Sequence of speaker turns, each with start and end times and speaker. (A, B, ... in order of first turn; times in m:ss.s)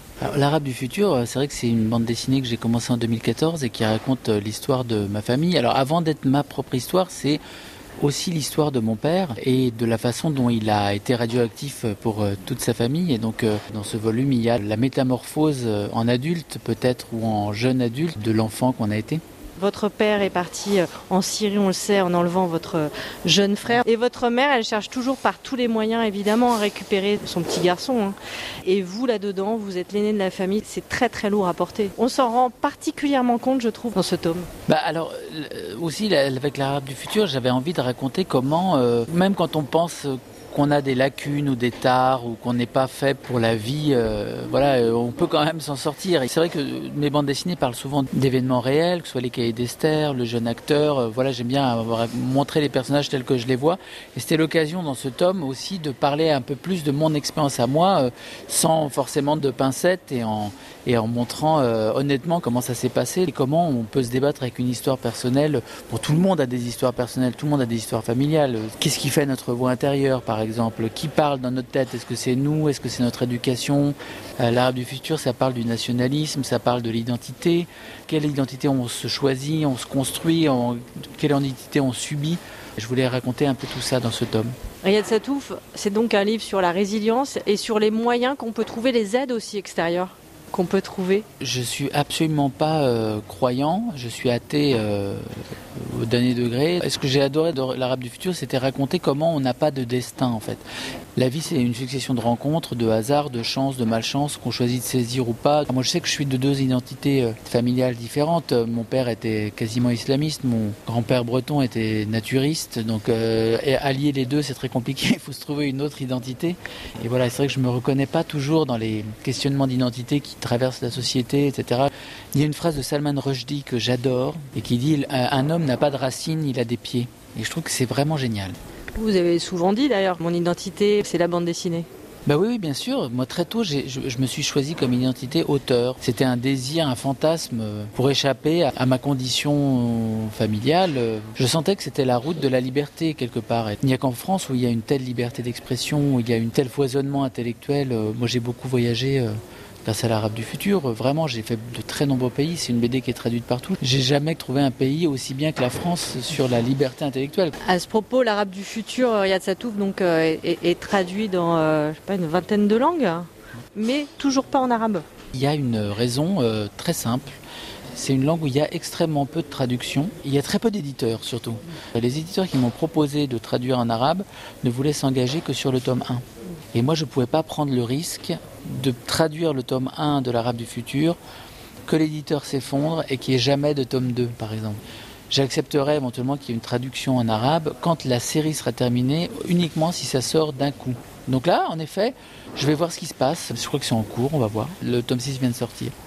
0:00.2-0:07.4 A
0:08.0-0:19.2 A
0:19.6-0:34.5 B
0:34.7-1:24.5 A
1:24.8-1:31.2 B
1:31.4-1:40.6 A
1:41.2-2:08.6 A
2:08.9-2:11.9 B
2:12.2-2:37.6 A
2:37.6-2:45.0 B
2:45.3-2:47.4 A
2:47.9-3:01.2 A
3:01.8-3:04.8 A
3:05.3-3:15.9 A